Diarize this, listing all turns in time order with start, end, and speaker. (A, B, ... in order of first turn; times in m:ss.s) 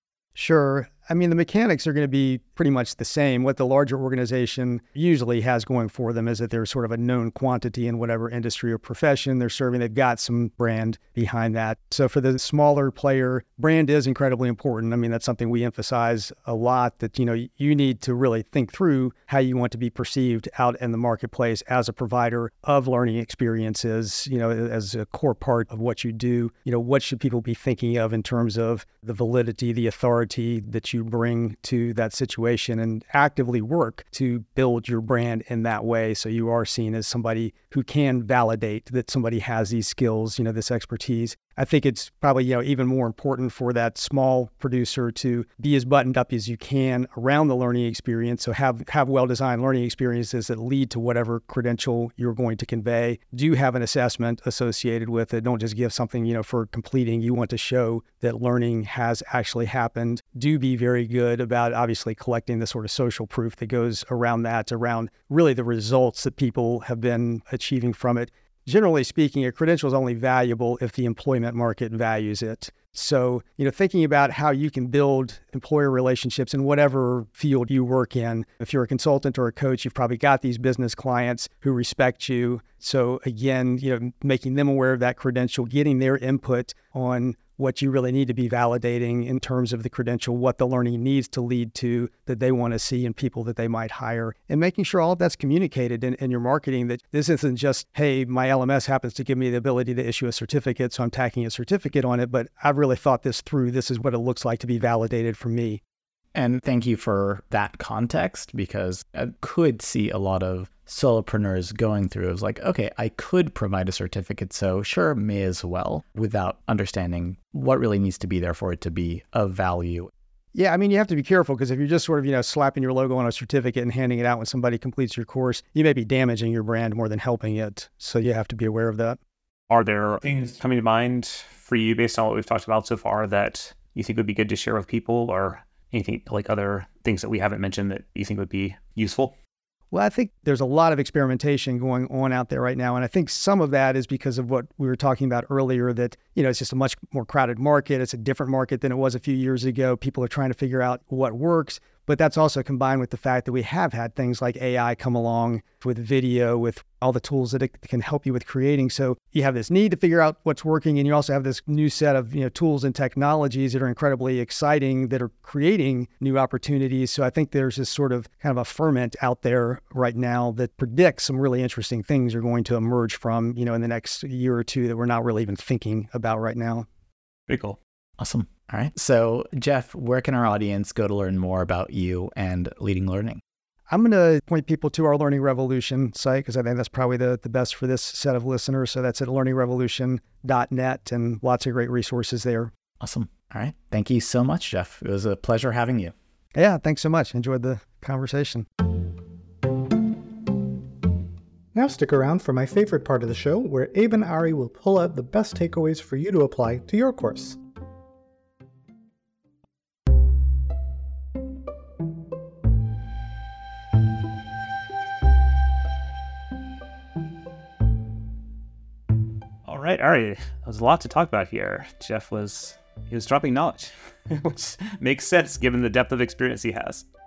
0:00.4-1:45.8 A
1:46.3-2:00.1 B
2:00.5-2:09.2 A
2:09.7-2:19.3 C
2:19.9-2:56.9 A
2:57.5-2:57.8 C
2:58.2-3:03.4 B
3:03.9-3:12.7 A
3:13.0-3:16.1 B
3:16.5-3:18.6 A
3:21.7-3:27.6 D
3:39.6-3:47.0 C